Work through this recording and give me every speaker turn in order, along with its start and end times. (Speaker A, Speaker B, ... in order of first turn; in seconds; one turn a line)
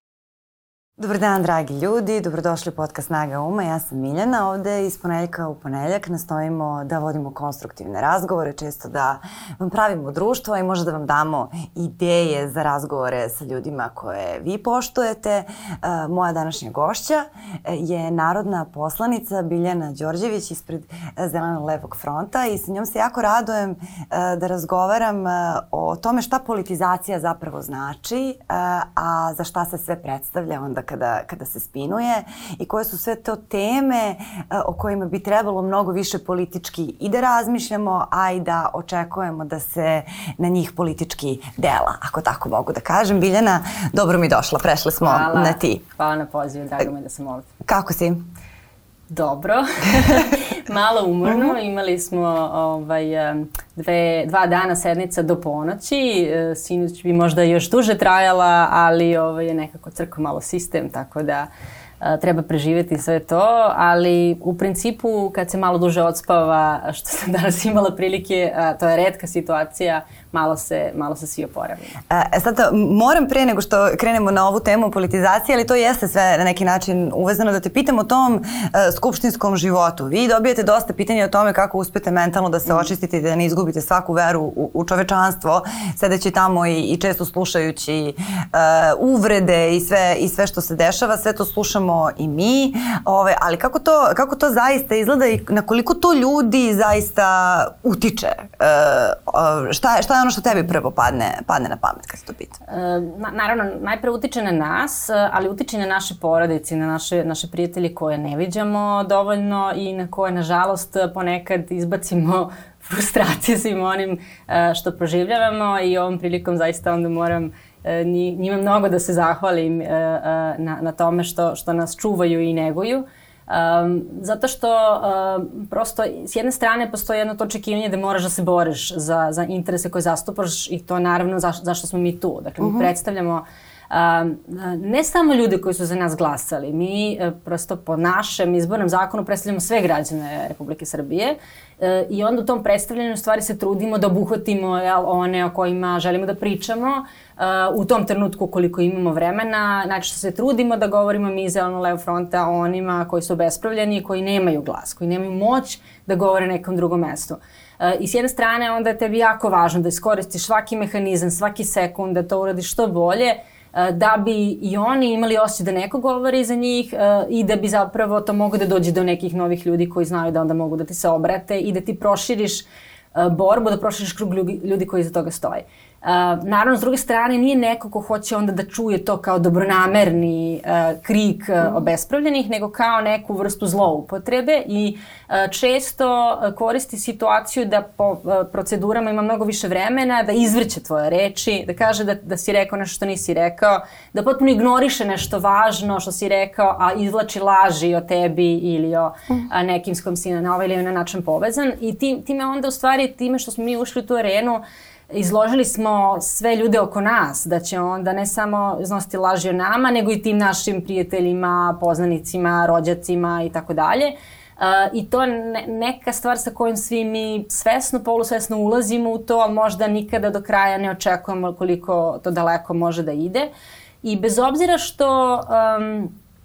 Speaker A: 1.0-45.8
Speaker B: 45.0-47.5
Speaker A: 47.6-48.2
Speaker B: 49.1-61.5
Speaker A: 51.3-51.6
Speaker B: 62.0-72.0
Speaker A: 72.1-102.6
Speaker B: 102.7-223.5
Speaker A: 132.6-132.9
Speaker B: 224.0-226.1